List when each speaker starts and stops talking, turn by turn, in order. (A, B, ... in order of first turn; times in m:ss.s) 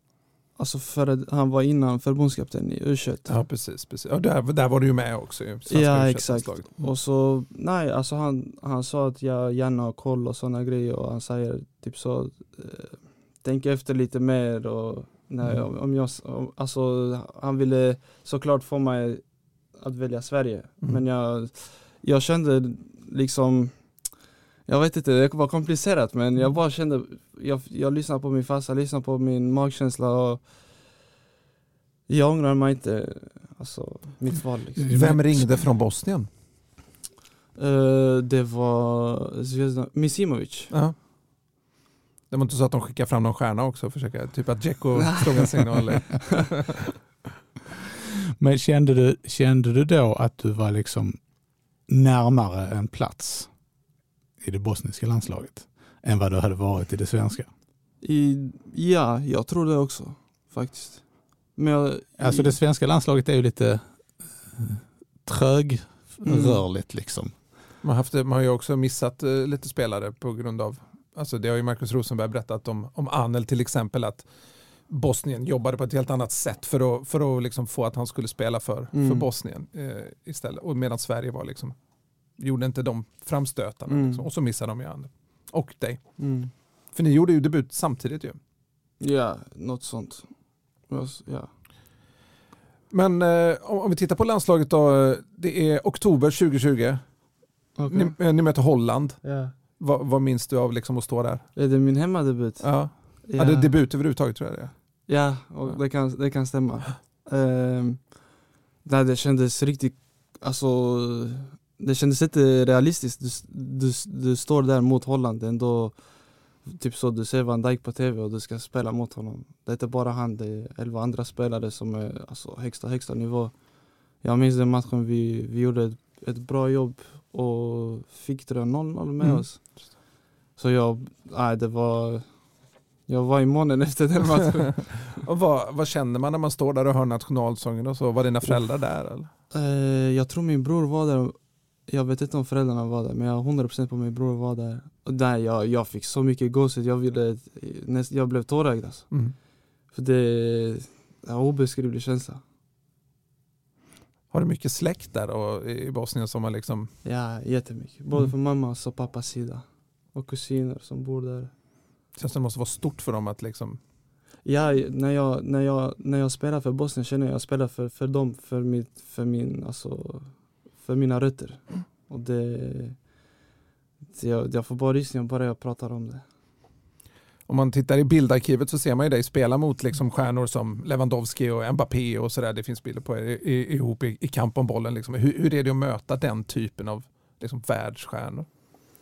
0:00.6-0:03.3 A
0:03.3-0:06.9 B
0:05.7-0:19.2 A
0:19.8-0:24.0 A
0:24.7-0:30.5 A
0:32.1-0:34.9 A
0:34.8-0:35.5 C
0:34.9-0:36.3 B
0:37.6-0:40.7 A
0:42.3-0:46.7 B
0:45.0-0:46.2 A
0:48.4-0:51.2 C
0:51.9-0:53.5 C
0:54.4-0:57.5 C
0:58.0-1:02.6 A
1:02.2-1:07.4 C
1:06.2-1:06.6 A
1:07.8-1:14.3 B
1:14.9-1:21.8 B
1:18.9-1:19.3 A
1:22.4-1:26.2 B
1:23.9-1:24.3 A
1:26.2-1:26.5 A
1:26.9-1:28.4 B
1:29.0-1:30.3 A
1:30.9-1:31.5 A
1:32.9-1:37.1 B
1:37.8-1:38.2 A
1:37.9-1:39.2 B
1:39.2-1:39.5 A
1:39.8-1:41.5 B
1:41.6-1:43.8 A
1:42.6-1:44.7 B
1:45.1-1:48.2 A
1:48.8-1:56.0 A
1:56.6-2:03.5 A
2:04.2-2:09.6 A
2:10.6-2:12.3 A
2:13.1-2:15.2 A
2:15.2-2:19.3 B
2:19.5-2:29.2 A
2:29.9-2:32.4 A
2:34.3-2:36.9 B
2:37.0-2:41.5 A
2:42.2-2:43.8 B
2:44.4-2:53.0 A
2:54.1-2:56.2 A
2:57.5-3:08.5 B